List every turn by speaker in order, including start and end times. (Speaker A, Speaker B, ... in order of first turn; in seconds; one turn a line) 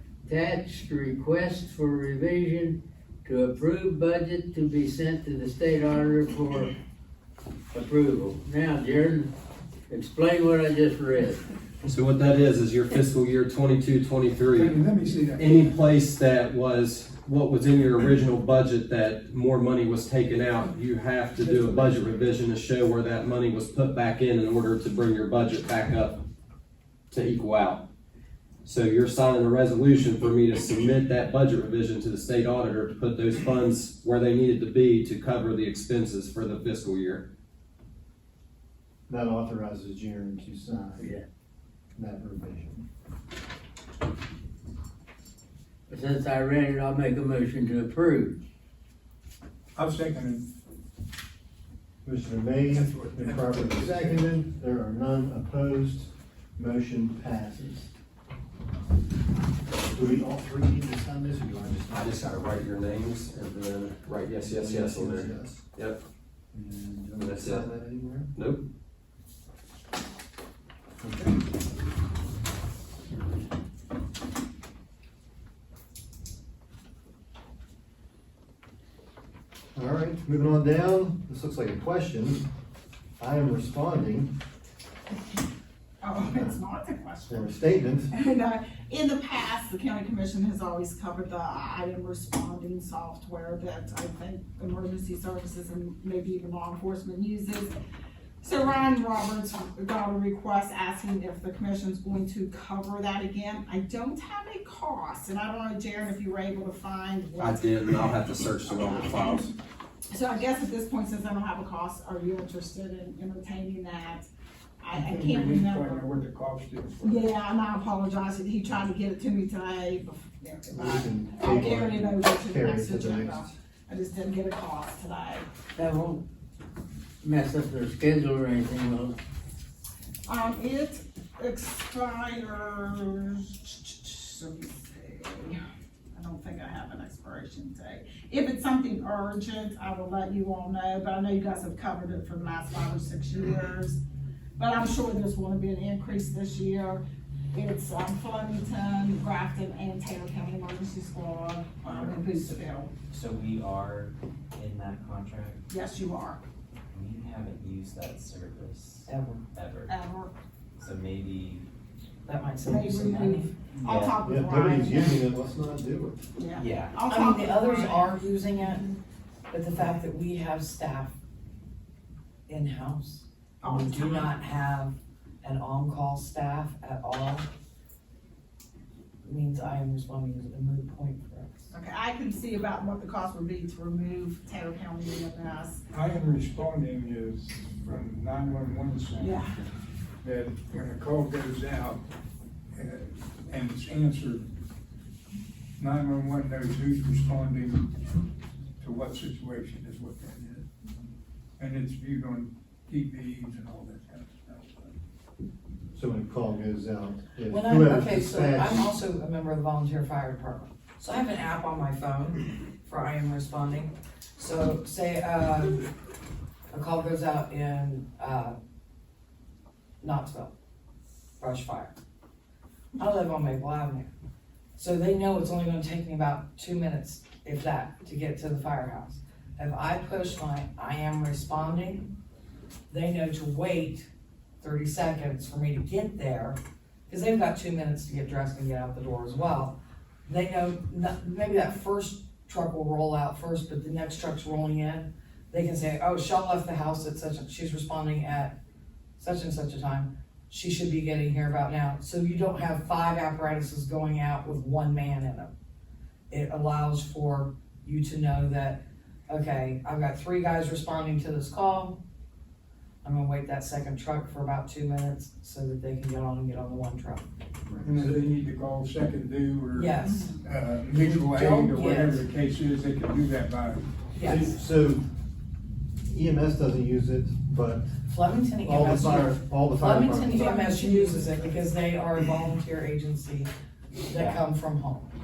Speaker A: 0.2-6.7
Speaker A: 7.7-9.3
Speaker A: 9.9-11.4
Speaker B: 11.8-14.8
Speaker C: 14.5-15.9
Speaker B: 15.3-26.2
Speaker C: 21.4-21.9
Speaker B: 27.1-27.8
Speaker B: 28.6-37.2
Speaker D: 39.1-41.1
Speaker A: 41.0-41.2
Speaker D: 42.0-42.8
Speaker A: 45.9-48.4
Speaker C: 49.7-50.5
Speaker D: 52.0-57.9
Speaker C: 52.7-54.3
Speaker D: 59.8-62.4
Speaker B: 61.9-66.0
Speaker D: 64.4-65.6
Speaker D: 66.5-68.3
Speaker B: 67.2-67.7
Speaker B: 68.3-68.6
Speaker D: 71.0-71.4
Speaker D: 79.7-82.5
Speaker D: 83.2-84.3
Speaker E: 86.0-87.5
Speaker D: 87.3-88.1
Speaker E: 88.1-97.7
Speaker E: 98.4-109.4
Speaker B: 107.4-109.5
Speaker E: 110.1-114.2
Speaker E: 114.8-116.2
Speaker C: 114.9-117.3
Speaker E: 117.0-125.5
Speaker D: 120.7-123.5
Speaker A: 125.7-126.2
Speaker A: 127.2-129.2
Speaker E: 130.2-135.6
Speaker E: 136.1-144.0
Speaker E: 144.6-152.9
Speaker F: 153.1-155.6
Speaker E: 155.7-156.4
Speaker F: 156.9-159.9
Speaker G: 159.1-159.4
Speaker E: 159.9-160.3
Speaker F: 160.8-161.7
Speaker G: 162.2-163.5
Speaker E: 162.7-165.2
Speaker D: 163.8-166.2
Speaker F: 163.9-164.2
Speaker E: 166.3-168.1
Speaker F: 166.5-167.0
Speaker G: 167.1-168.9
Speaker G: 169.5-171.1
Speaker G: 172.5-177.5
Speaker E: 173.6-174.3
Speaker G: 179.2-181.7
Speaker E: 181.7-185.8
Speaker C: 185.9-189.6
Speaker E: 189.2-189.5
Speaker C: 190.2-192.0
Speaker C: 192.7-194.5
Speaker C: 195.8-197.9
Speaker C: 198.8-200.7
Speaker C: 201.6-205.0
Speaker D: 205.9-208.9
Speaker G: 207.5-215.9
Speaker G: 216.7-218.6
Speaker G: 220.0-220.5
Speaker G: 221.4-221.9
Speaker G: 223.0-224.1
Speaker G: 224.7-232.1
Speaker G: 232.9-234.1
Speaker G: 234.6-248.6
Speaker G: 249.2-255.5
Speaker G: 256.3-262.0
Speaker G: 263.0-267.3
Speaker C: 267.8-274.5
Speaker G: 269.7-270.3
Speaker E: 270.0-270.3
Speaker G: 270.9-272.2
Speaker G: 274.1-274.6
Speaker D: 274.2-275.0
Speaker D: 276.0-277.9
Speaker G: 278.1-283.5
Speaker D: 278.6-280.6
Speaker E: 280.3-281.4
Speaker G: 284.1-285.1
Speaker F: 284.1-284.4